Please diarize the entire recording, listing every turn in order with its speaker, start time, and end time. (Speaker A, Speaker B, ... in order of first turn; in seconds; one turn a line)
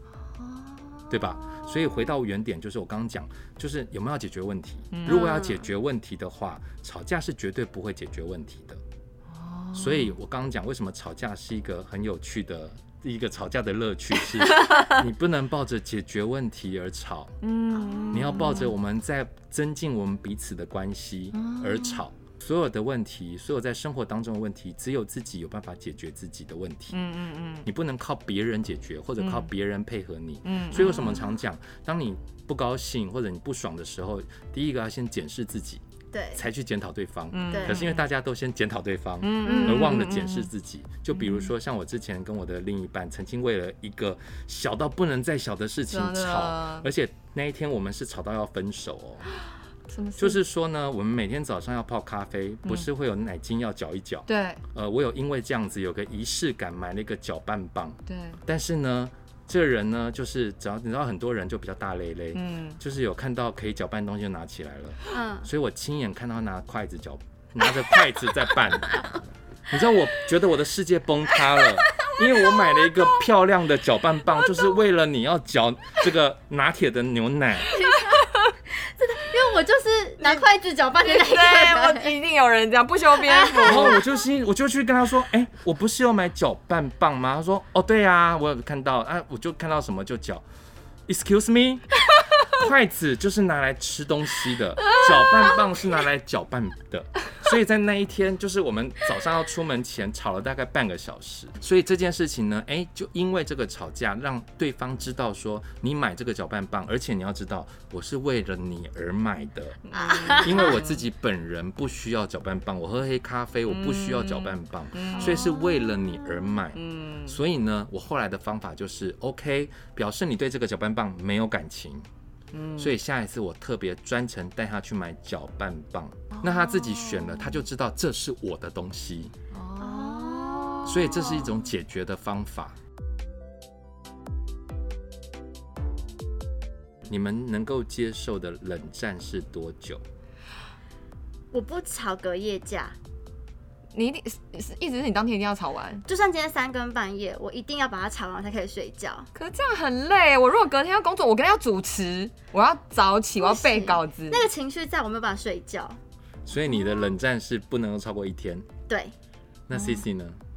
Speaker A: 0.4-2.1
Speaker B: 1.1-8.8
Speaker A: 4.9-5.5
Speaker C: 5.1-5.6
Speaker A: 9.3-10.1
Speaker B: 9.7-17.4
Speaker A: 17.4-18.7
Speaker C: 17.7-18.6
Speaker B: 18.1-27.0
Speaker A: 21.3-22.0
Speaker A: 26.9-27.7
Speaker B: 27.6-35.8
Speaker A: 29.2-29.5
Speaker A: 30.4-31.4
Speaker C: 36.1-36.4
Speaker B: 36.3-49.3
Speaker A: 37.3-38.0
Speaker C: 37.5-37.8
Speaker A: 39.2-40.5
Speaker C: 39.4-40.1
Speaker A: 41.2-41.5
Speaker A: 45.9-46.9
Speaker A: 49.9-50.4
Speaker B: 50.2-77.8
Speaker A: 54.3-54.6
Speaker A: 58.1-58.4
Speaker A: 62.3-62.8
Speaker C: 65.1-65.5
Speaker C: 77.7-82.1
Speaker A: 77.8-78.5
Speaker A: 81.0-84.0
Speaker C: 83.2-84.0
Speaker B: 83.6-90.4
Speaker B: 91.1-122.1
Speaker A: 109.9-111.0
Speaker C: 109.9-110.8
Speaker A: 113.7-115.8
Speaker C: 115.2-115.5
Speaker A: 116.7-117.4
Speaker A: 122.5-123.0
Speaker B: 122.8-129.3
Speaker A: 126.3-127.6
Speaker A: 129.5-131.4
Speaker C: 129.8-130.9
Speaker B: 130.8-132.8
Speaker B: 137.1-140.0
Speaker C: 141.5-142.9
Speaker A: 143.9-146.0
Speaker C: 146.1-149.3
Speaker A: 149.3-154.4
Speaker C: 153.4-156.0
Speaker B: 156.5-158.7
Speaker C: 158.9-159.1
Speaker B: 159.7-160.4
Speaker A: 159.7-160.0